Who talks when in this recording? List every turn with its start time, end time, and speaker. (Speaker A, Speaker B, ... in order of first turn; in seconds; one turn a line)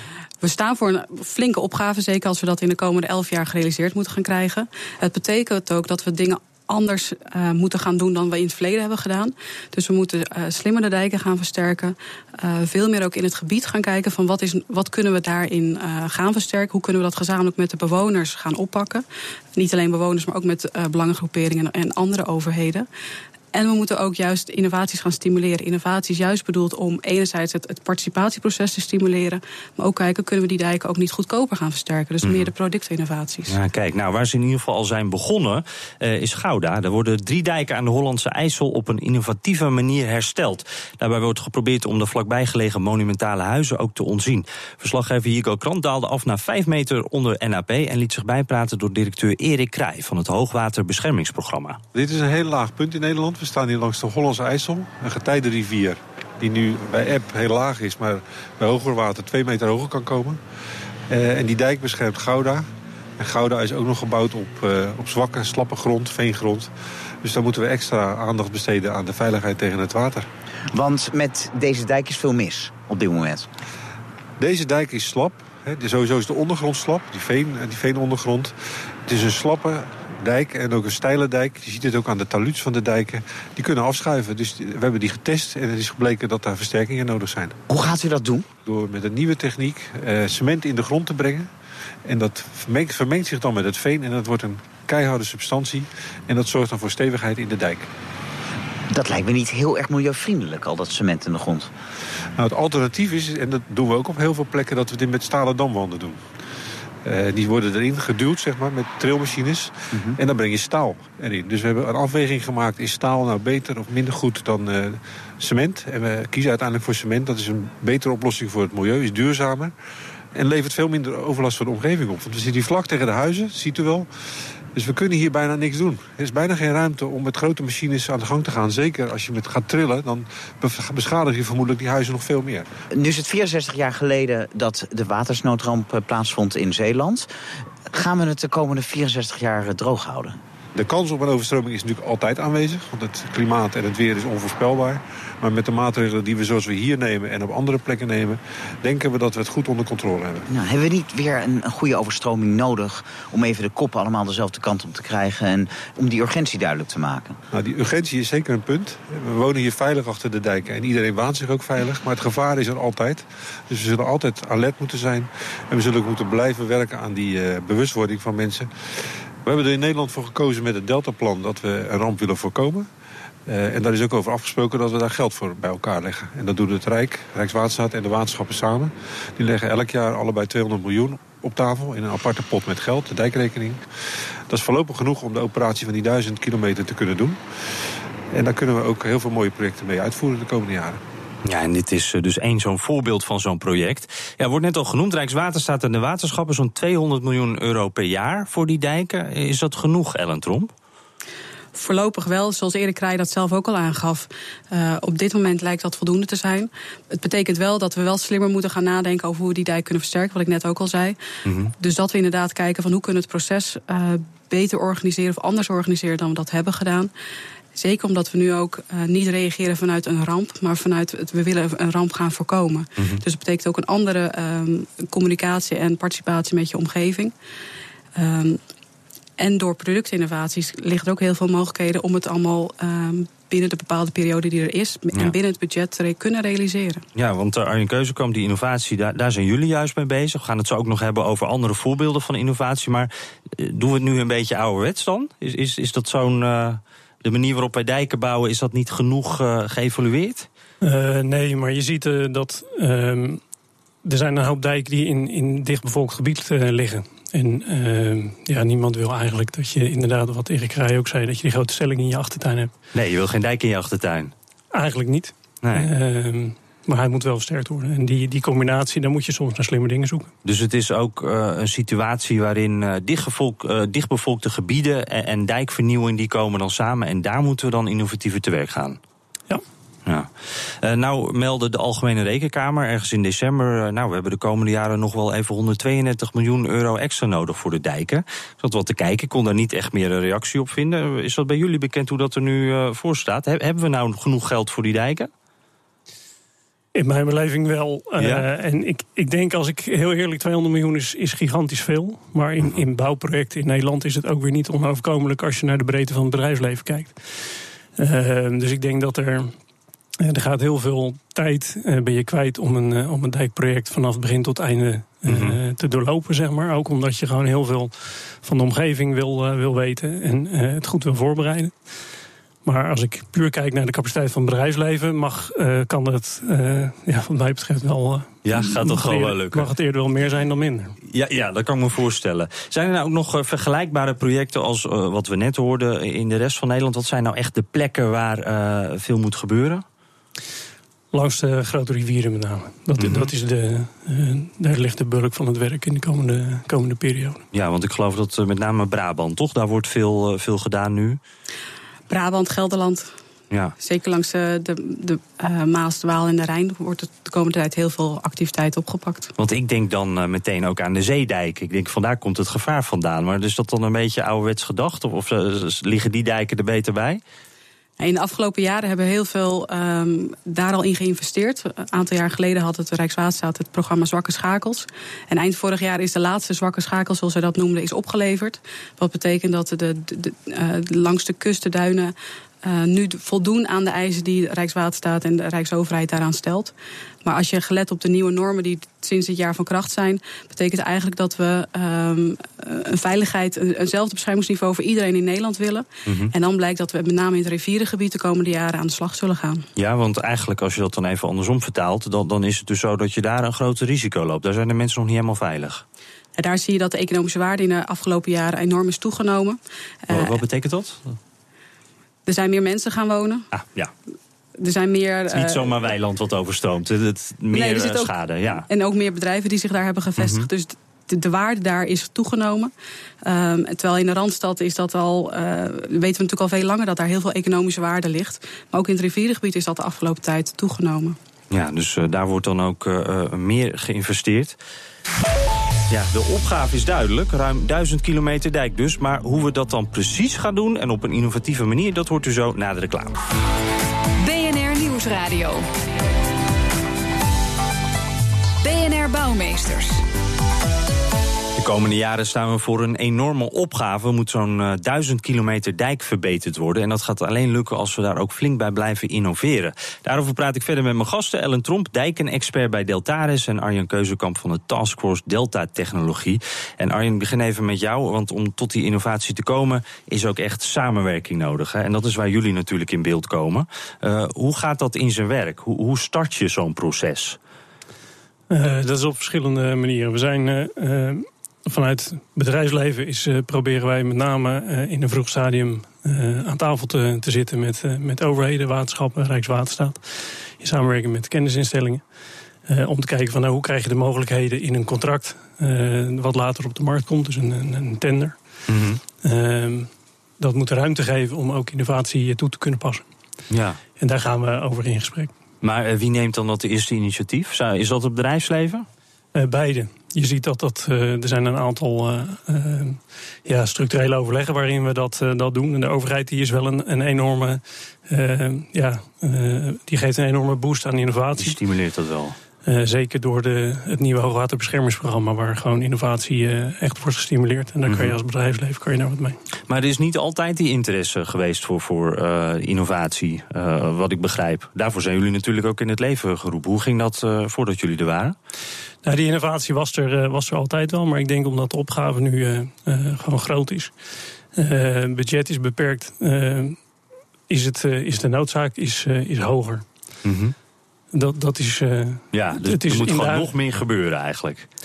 Speaker A: 0.4-19.0
Speaker A: 19.5-22.9
Speaker A: 23.5-33.6
Speaker B: 32.2-32.5
Speaker B: 33.5-51.8
Speaker C: 51.9-60.4
Speaker C: 61.1-62.6
Speaker C: 63.2-66.7
Speaker C: 67.2-70.2
Speaker D: 70.7-73.5
Speaker C: 74.4-78.5
Speaker C: 79.1-87.6
Speaker D: 87.7-88.5
Speaker C: 88.6-91.5
Speaker C: 92.0-97.9
Speaker D: 98.9-101.7
Speaker C: 102.4-106.2
Speaker C: 107.0-119.7
Speaker D: 109.9-110.2
Speaker C: 120.3-124.1
Speaker C: 124.7-132.7
Speaker D: 132.9-137.3
Speaker D: 137.9-140.4
Speaker C: 140.7-150.5
Speaker D: 150.5-157.4
Speaker C: 157.5-168.7
Speaker C: 169.4-172.9
Speaker C: 173.5-183.8
Speaker C: 184.5-187.4
Speaker C: 188.3-191.0
Speaker B: 191.4-200.7
Speaker A: 201.7-211.2
Speaker B: 211.4-211.7
Speaker A: 211.8-217.1
Speaker A: 217.7-227.3
Speaker B: 223.0-223.2
Speaker A: 228.1-228.6
Speaker A: 229.4-237.0
Speaker B: 237.1-250.5
Speaker E: 250.8-253.4
Speaker E: 254.0-262.7
Speaker B: 262.9-264.3
Speaker E: 264.7-270.3
Speaker B: 265.6-265.9
Speaker B: 270.4-279.0
Speaker B: 280.1-295.3
Speaker E: 296.9-307.2
Speaker B: 298.2-298.4
Speaker E: 308.0-309.5
Speaker E: 310.2-321.7
Speaker B: 315.3-315.6
Speaker E: 322.6-330.9
Speaker B: 328.4-329.7
Speaker B: 331.1-339.8
Speaker E: 341.1-347.4
Speaker B: 343.0-343.3
Speaker B: 347.5-351.2
Speaker A: 352.1-353.1
Speaker A: 353.8-359.3
Speaker B: 359.4-367.2
Speaker A: 368.0-399.6
Speaker B: 396.1-396.3
Speaker B: 399.8-405.8
Speaker A: 406.4-410.3
Speaker B: 410.1-411.2
Speaker A: 412.2-413.5
Speaker B: 413.5-413.9
Speaker A: 414.6-415.7
Speaker B: 415.3-418.6
Speaker A: 417.5-418.1
Speaker A: 418.6-422.7
Speaker B: 420.2-420.5
Speaker A: 423.2-431.2
Speaker B: 431.5-434.6
Speaker B: 435.9-443.2
Speaker F: 444.2-445.7
Speaker F: 448.6-450.0
Speaker B: 451.6-477.4
Speaker E: 478.5-492.0
Speaker E: 492.7-498.4
Speaker B: 498.7-499.0
Speaker E: 499.2-503.1
Speaker B: 503.5-503.8
Speaker E: 504.0-505.3
Speaker B: 505.6-508.9
Speaker E: 509.3-521.6
Speaker B: 521.4-522.4
Speaker E: 522.6-529.4
Speaker B: 527.9-528.1
Speaker B: 529.7-538.4
Speaker E: 539.0-543.9
Speaker E: 544.5-546.8
Speaker E: 547.5-549.8
Speaker B: 550.2-550.5
Speaker E: 551.1-553.5
Speaker B: 552.3-554.7